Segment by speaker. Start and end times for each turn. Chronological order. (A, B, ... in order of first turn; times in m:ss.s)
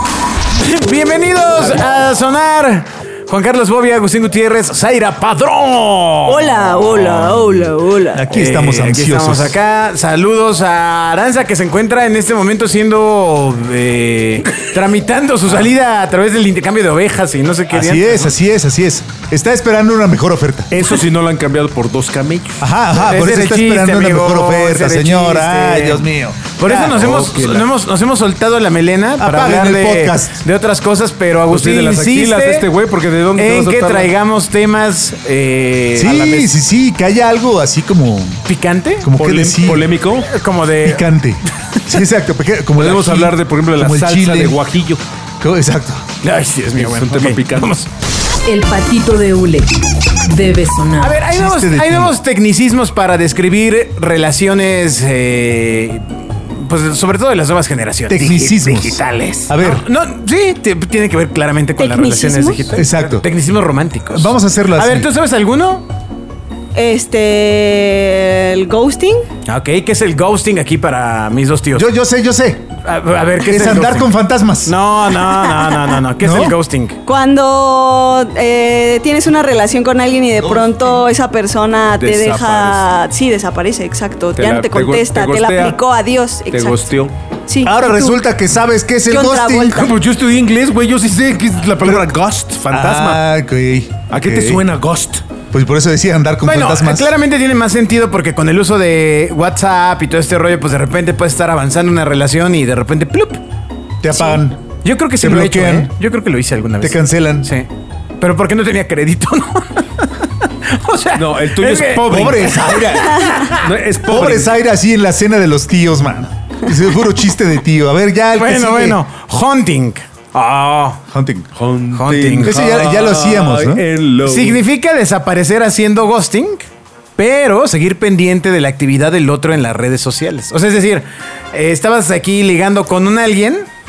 0:00.6-0:06.5 A
0:06.2-0:08.2 B
0:08.1-0:09.6 C
0:08.3-0:18.3 A
0:17.7-0:20.7 C
0:20.7-0:22.6 D
0:22.6-0:26.4 C
0:23.0-0:32.6 A
0:26.6-0:27.7 D
0:29.2-0:30.4 C
0:31.5-0:34.1 D
0:33.4-0:36.5 A
0:36.0-0:38.4 C
0:38.4-0:39.1 A
0:39.0-0:39.9 C
0:39.2-0:40.3 D
0:40.3-0:41.1 A
0:40.8-0:44.6 C
0:42.8-0:45.0 D
0:45.4-0:46.0 C
0:46.2-0:47.9 A
0:46.8-0:47.8 D
0:48.4-0:49.7 E
0:50.3-0:51.2 E
0:51.0-0:58.2 A
0:51.3-0:52.2 C
0:58.1-0:59.8 C
0:58.1-0:59.5 D
0:59.5-1:05.8 A
1:01.8-1:02.7 B
1:02.7-1:03.2 C
1:04.1-1:05.1 C
1:06.7-1:09.3 B
1:09.5-1:11.9 A
1:11.7-1:12.7 C
1:12.8-1:14.1 A
1:13.4-1:14.8 C
1:14.6-1:17.0 A
1:15.5-1:15.8 B
1:16.2-1:16.6 C
1:17.0-1:26.9 B
1:20.4-1:20.7 C
1:22.0-1:22.9 D
1:24.4-1:25.8 D
1:26.5-1:27.1 D
1:27.5-1:28.2 B
1:27.6-1:29.9 C
1:29.1-1:29.9 B
1:29.7-1:33.2 D
1:32.7-1:34.6 C
1:34.1-1:35.2 D
1:35.5-1:37.1 C
1:36.4-1:43.4 A
1:44.0-1:44.6 C
1:44.2-1:47.7 A
1:45.2-1:45.9 C
1:46.8-1:47.5 C
1:48.2-1:53.6 A
1:51.2-1:52.6 D
1:52.0-1:53.4 C
1:53.5-1:54.5 D
1:54.1-1:59.0 C
1:58.4-2:01.0 A
2:01.1-2:01.5 C
2:01.5-2:04.6 D
2:01.9-2:02.6 A
2:02.4-2:03.8 C
2:04.2-2:13.7 A